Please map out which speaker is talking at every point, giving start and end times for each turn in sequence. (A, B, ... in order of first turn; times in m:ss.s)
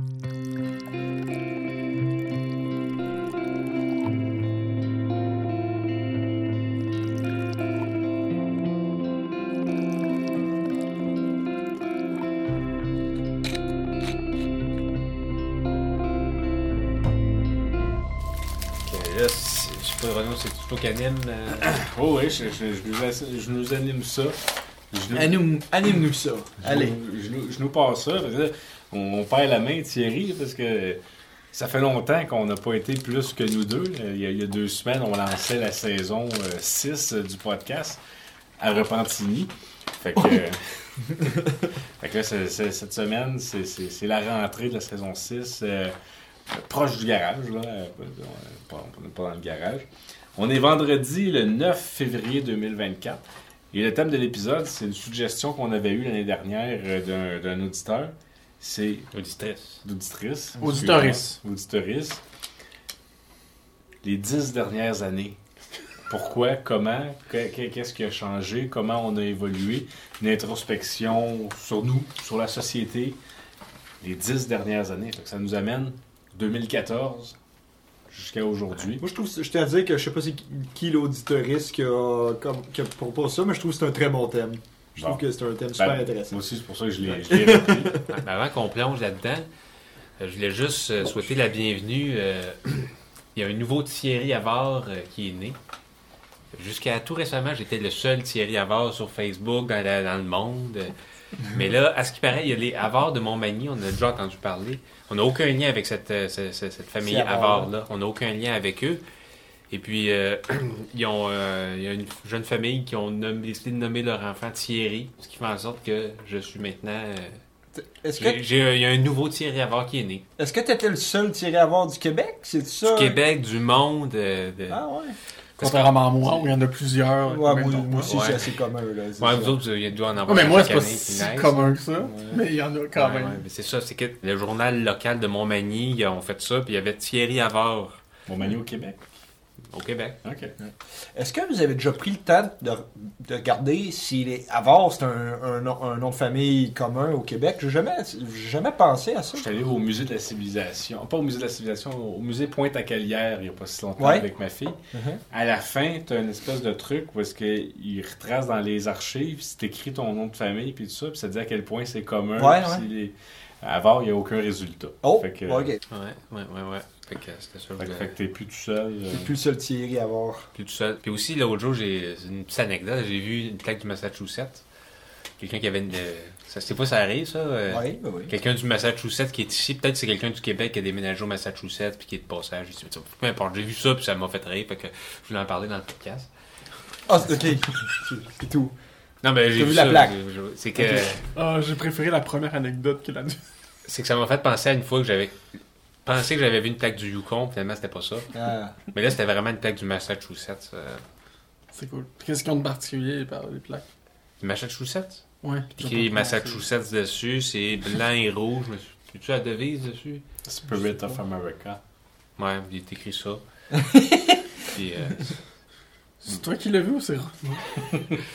0:18.8-0:21.7 A
0:21.6-0:24.4 B
0:24.9-0:25.4 B
0:25.1-0:27.0 C
0:26.6-0:31.0 B
0:31.5-0:38.0 B
0:38.6-0:46.0 B
0:46.5-0:59.1 B
0:59.1-0:59.8 A
0:59.8-1:02.2 B
1:00.6-1:01.4 D
1:04.0-1:05.4 B
1:06.1-1:13.2 B
1:14.0-1:17.4 B
1:18.1-1:19.0 B
1:19.0-1:26.4 C
1:25.0-1:25.2 B
1:25.8-1:28.0 B
1:27.0-1:28.1 C
1:28.1-1:29.5 A
1:30.2-1:35.6 A
1:36.5-1:49.0 A
1:47.0-1:47.7 C
1:49.7-1:57.4 A
1:57.8-1:58.4 C
1:58.2-2:00.2 A
2:00.4-2:03.2 C
2:02.8-2:04.8 A
2:04.7-2:05.2 C
2:05.6-2:08.2 D
2:05.6-2:06.5 A
2:07.3-2:09.6 C
2:08.0-2:08.5 A
2:09.2-2:11.6 A
2:10.2-2:13.4 D
2:13.0-2:18.0 A
2:18.3-2:19.0 B
2:19.7-2:20.2 A
2:20.2-2:20.5 B
2:20.6-2:29.5 C
2:29.3-2:34.8 B
2:34.0-2:34.3 C
2:34.9-2:35.2 C
2:35.3-2:45.8 B
2:42.4-2:42.9 C
2:45.0-2:45.8 C
2:45.9-2:48.1 A
2:47.8-2:49.3 B
2:49.1-2:50.5 C
2:50.6-2:54.6 A
2:55.4-3:06.3 A
2:57.7-2:58.4 C
3:07.1-3:08.8 C
3:09.2-3:11.2 A
3:09.6-3:10.1 C
3:10.8-3:11.1 C
3:11.4-3:13.4 D
3:13.9-3:15.4 A
3:16.0-3:18.3 A
3:18.3-3:18.8 C
3:18.9-3:21.0 A
3:21.7-3:23.8 D
3:24.4-3:25.2 A
3:25.4-3:26.6 D
3:25.7-3:30.2 A
3:30.5-3:31.8 B
3:32.4-3:33.4 A
3:33.8-3:34.4 C
3:34.6-3:35.4 A
3:36.2-3:38.0 D